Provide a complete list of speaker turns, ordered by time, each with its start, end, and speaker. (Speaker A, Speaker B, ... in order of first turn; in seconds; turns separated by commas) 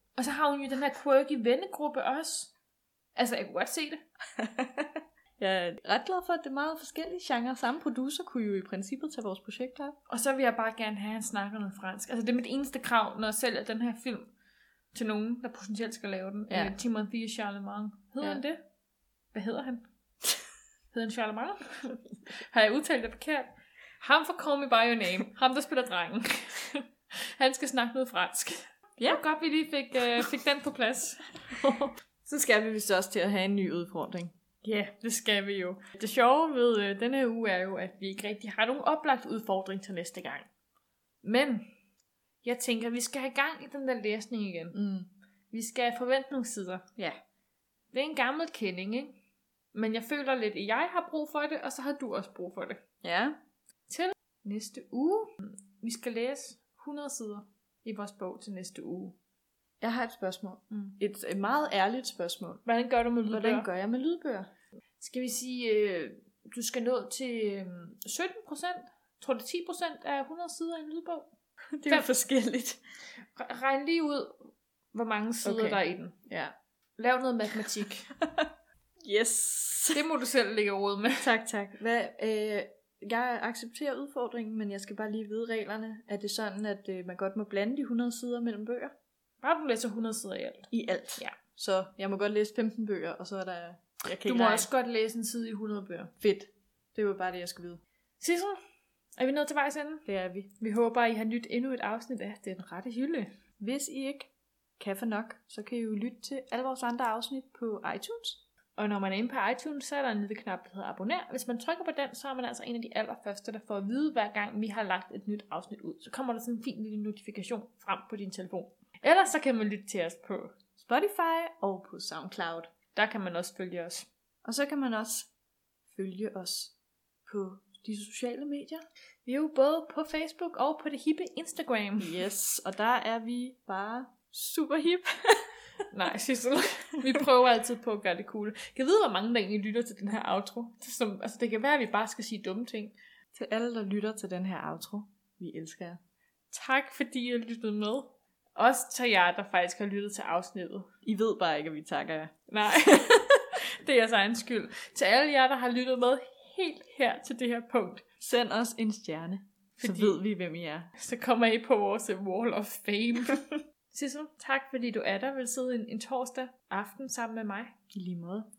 Speaker A: 0.1-2.5, Speaker A: 3.1-4.0, Speaker B: 4.3-9.9, Speaker A: 10.1-14.3, Speaker A: 14.9-18.6, Speaker A: 19.3-19.9, Speaker A: 20.9-31.9, Speaker B: 32.2-34.3, Speaker A: 34.6-40.5, Speaker A: 41.2-41.6, Speaker A: 42.4-44.8, Speaker B: 44.7-45.1, Speaker A: 45.5-46.9, Speaker A: 47.9-49.2, Speaker A: 49.7-52.8, Speaker B: 53.0-53.4, Speaker A: 53.9-59.1, Speaker B: 59.8-62.6, Speaker A: 60.7-61.0, Speaker A: 62.6-63.7, Speaker B: 63.3-64.5, Speaker A: 65.0-71.3, Speaker B: 71.7-72.8, Speaker A: 73.3-76.1, Speaker B: 75.4-76.5, Speaker A: 77.0-78.1, Speaker B: 78.2-78.5, Speaker B: 79.0-80.0, Speaker A: 79.9-81.3, Speaker B: 81.2-88.9, Speaker A: 89.4-91.3, Speaker B: 90.7-94.7, Speaker A: 94.2-96.1, Speaker B: 96.2-97.8, Speaker A: 98.2-98.6, Speaker A: 99.2-100.1, Speaker B: 100.0-100.5, Speaker A: 100.6-103.3, Speaker B: 103.6-108.4, Speaker A: 108.8-120.5, Speaker B: 120.8-122.7, Speaker A: 122.9-124.1, Speaker B: 124.4-125.3, Speaker B: 125.9-126.7, Speaker B: 127.2-128.8, Speaker A: 129.2-132.2, Speaker B: 132.0-135.5, Speaker A: 135.9-142.9, Speaker B: 143.3-146.0, Speaker A: 146.5-150.9, Speaker B: 151.0-153.1, Speaker A: 152.5-158.0, Speaker B: 158.2-160.9, Speaker A: 159.8-160.2, Speaker A: 160.9-167.7, Speaker B: 167.9-168.5